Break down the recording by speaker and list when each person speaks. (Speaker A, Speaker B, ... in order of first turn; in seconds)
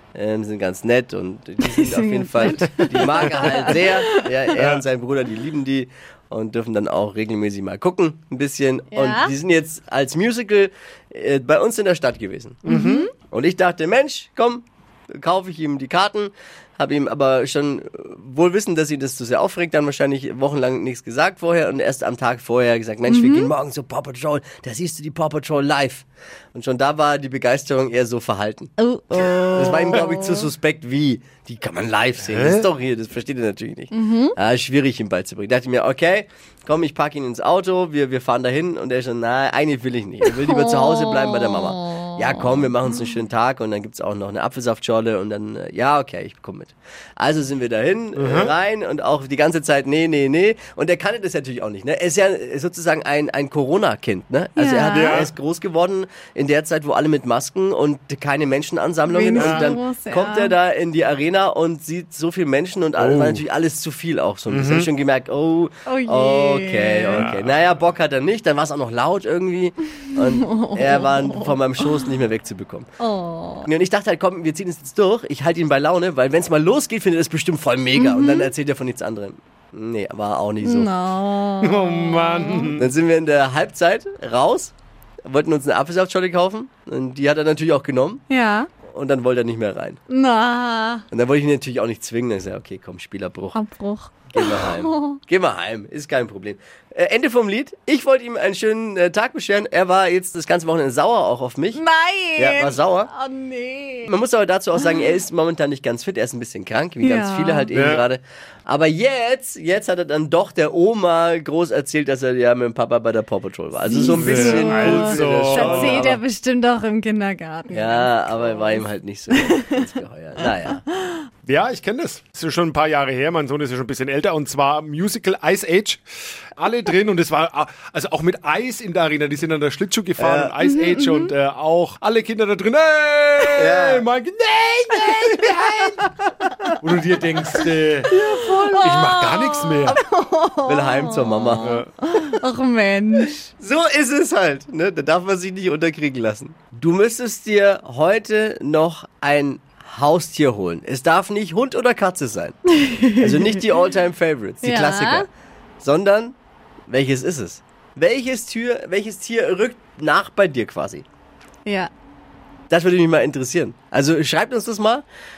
Speaker A: 0.1-12.6, 13.2-72.9, 73.6-80.9, 82.8-84.7, 85.2-88.2, 88.9-90.0, 91.1-93.6, 94.3-101.8, 102.4-103.1, 104.0-116.2, 117.7-120.8, 130.2-130.5, 133.6-134.0, 140.7-141.8, 143.6-152.6, 153.2-155.3, 155.8-156.3, 156.9-161.0, 162.7-165.1
Speaker B: 1.6-4.3, 8.9-9.3, 12.7-13.1, 23.1-23.5, 28.8-30.5, 33.9-34.4, 40.3-42.4, 54.5-55.2, 59.1-60.5, 65.9-67.3, 70.2-72.1, 73.0-73.7, 77.9-78.5, 80.6-82.7, 88.3-88.7, 90.1-91.0, 93.5-95.2, 101.7-104.1, 107.0-107.7, 113.9-119.8, 120.9-121.2, 130.6-131.3, 135.0-135.9, 138.1-143.5, 152.7-153.3, 154.6-155.3, 161.6-161.9
Speaker C: 4.6-4.8, 12.7-13.1, 32.3-32.6, 48.1-48.5, 54.9-55.3, 59.4-59.7, 63.0-63.4, 64.5-64.9, 67.1-67.6, 81.6-82.9, 107.7-108.0, 114.1-116.2, 121.5-126.0, 126.5-136.1, 136.8-140.0, 141.6-141.9